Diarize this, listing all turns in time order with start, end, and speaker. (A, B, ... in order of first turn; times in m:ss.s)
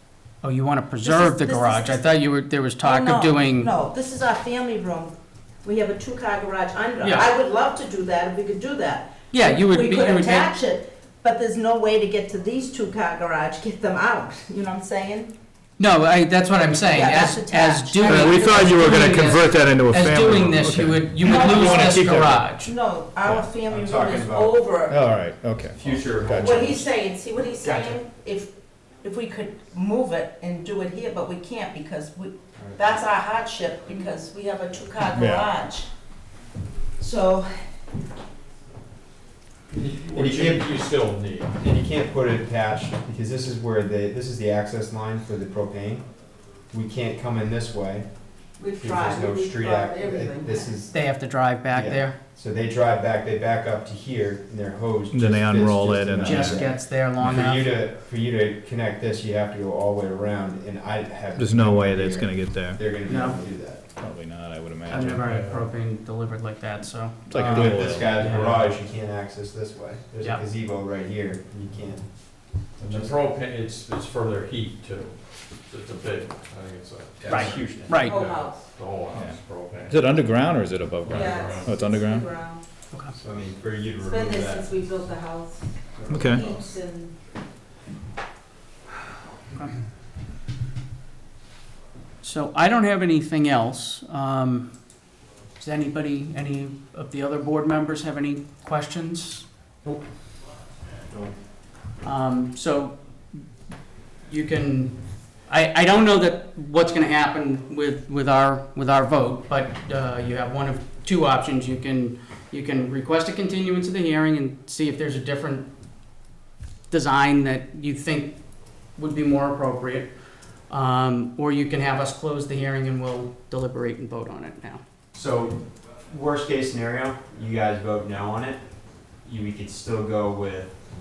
0:00.4-0:03.7 A
0:01.0-0:02.1 B
0:02.8-0:15.3 B
0:07.0-0:07.3 A
0:09.3-0:10.5 A
0:15.8-0:22.7 A
0:16.8-0:19.2 B
0:18.0-0:22.5 C
0:21.2-0:25.0 B
0:23.4-0:24.6 D
0:24.9-0:26.8 C
0:25.7-0:26.9 D
0:26.4-0:35.9 B
0:32.5-0:32.8 D
0:35.1-0:35.5 C
0:37.0-0:37.5 B
0:39.7-0:48.1 D
0:40.0-0:41.5 E
0:48.6-0:50.7 B
0:48.8-0:51.0 D
0:50.9-0:52.2 A
0:51.7-1:03.8 D
0:55.1-0:56.7 C
0:56.2-0:57.8 A
1:01.4-1:02.8 C
1:03.1-1:03.4 A
1:04.0-1:05.3 C
1:04.8-1:08.7 A
1:07.3-1:08.1 C
1:07.4-1:13.2 D
1:12.8-1:20.0 E
1:17.2-1:18.0 D
1:17.3-1:18.2 A
1:17.9-1:18.7 B
1:19.1-1:22.3 C
1:21.1-1:22.6 B
1:21.1-1:21.6 E
1:23.1-1:24.8 D
1:24.0-1:27.1 B
1:25.9-1:26.5 D
1:26.1-1:26.4 C
1:32.2-1:34.7 A
1:35.6-1:39.5 A
1:42.0-1:43.0 A
1:44.2-1:55.7 A
1:56.9-1:58.4 A
1:58.9-2:00.1 A
2:00.7-2:04.8 A
2:05.1-2:10.8 D